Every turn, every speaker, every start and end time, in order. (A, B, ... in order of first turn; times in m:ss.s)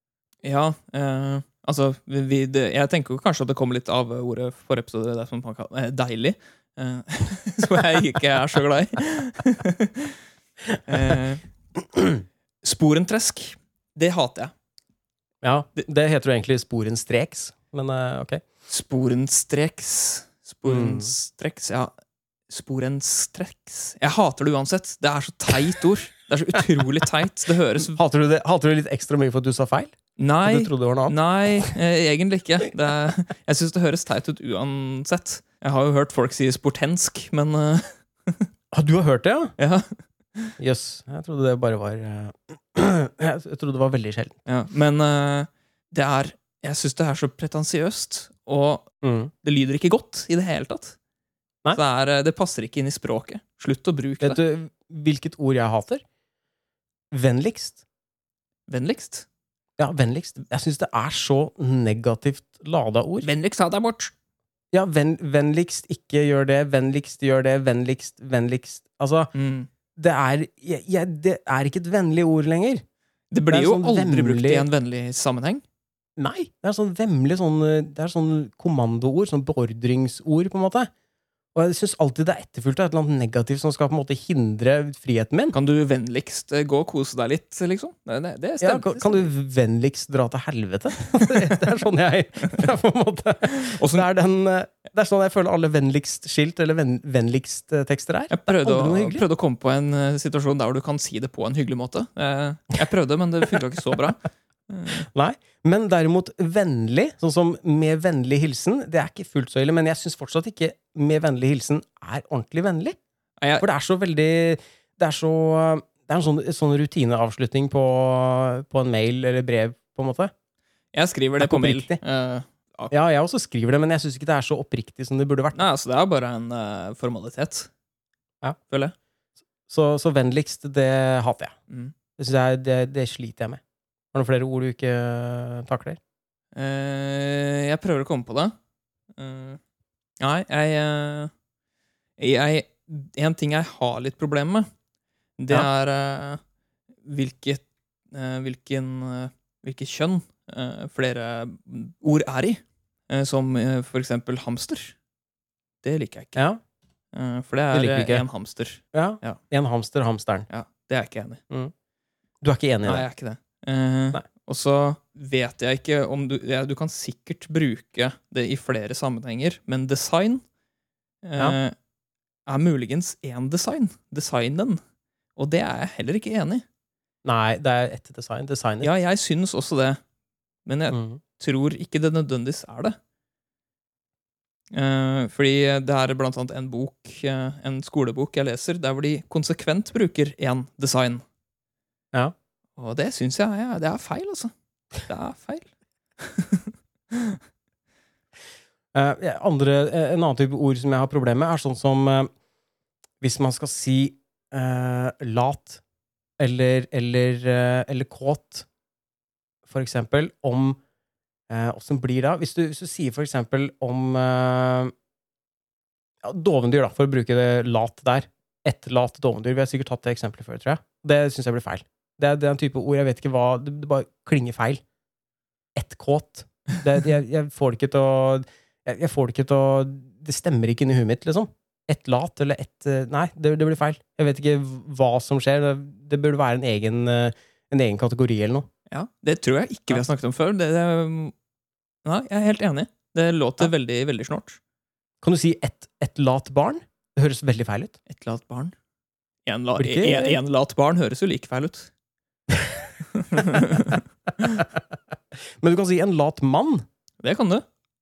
0:00.4-0:10.1 A
0:10.7-0:11.2 B
0:10.9-0:11.4 A
0:11.8-0:12.2 B
0:12.6-0:14.5 A
0:15.4-0:18.4 B
0:18.7-0:21.9 A
0:20.6-0:21.1 B
0:22.5-0:28.0 A
0:27.9-0:31.7 B
0:30.2-0:38.5 A
0:38.7-0:39.5 B
0:39.6-0:40.5 A
0:40.6-0:44.4 B
0:44.4-0:48.9 A
0:49.0-0:49.3 B
0:49.4-0:51.0 A
0:51.7-0:54.4 A
0:54.2-0:56.0 B
0:57.1-0:57.8 B
0:58.7-0:59.2 A
0:59.8-1:03.3 B
1:03.2-1:04.1 A
1:04.7-1:09.3 B
1:09.3-1:09.7 A
1:10.0-1:12.8 B
1:13.3-1:15.6 A
1:13.5-1:14.6 B
1:16.2-1:20.9 B
1:21.5-1:25.5 B
1:25.5-1:29.3 A
1:28.6-1:39.2 B
1:33.4-1:34.1 A
1:38.3-1:45.1 A
1:45.0-1:53.0 B
1:53.4-1:53.6 A
1:53.6-2:00.3 B
2:00.9-2:02.9 A
2:01.4-2:02.0 B
2:02.9-2:05.6 B
2:05.5-2:07.7 A
2:08.7-2:08.9 A
2:09.7-2:11.5 B
2:11.7-2:11.9 A
2:12.2-2:13.6 B
2:14.1-2:16.0 B
2:16.5-2:18.5 A
2:19.2-2:19.6 A
2:20.2-2:21.3 A
2:22.2-2:24.7 A
2:25.4-2:26.4 A
2:27.0-2:35.0 A
2:35.8-2:36.4 A
2:37.1-2:39.4 A
2:37.7-2:38.2 B
2:38.9-2:40.5 B
2:40.5-2:41.4 A
2:42.4-2:43.0 B
2:42.8-2:50.4 A
2:51.2-2:51.7 A
2:52.4-2:54.8 A
2:55.4-2:56.6 A
2:57.2-2:58.9 B
2:58.8-3:00.0 A
3:00.6-3:03.0 A
3:00.9-3:01.2 B
3:04.7-3:11.2 A
3:12.8-3:17.4 A
3:18.9-3:22.3 B
3:23.2-3:25.8 B
3:26.4-3:28.7 B
3:29.7-3:30.8 B
3:31.5-3:34.9 B
3:36.2-3:44.8 B
3:45.8-3:58.7 B
3:58.9-4:01.3 A
4:02.0-4:04.6 A
4:05.2-4:08.0 B
4:08.1-4:08.7 A
4:09.4-4:11.9 A
4:09.8-4:10.4 B
4:12.5-4:12.8 B
4:13.1-4:14.6 A
4:14.4-4:14.8 B
4:15.6-4:16.8 B
4:17.2-4:17.6 A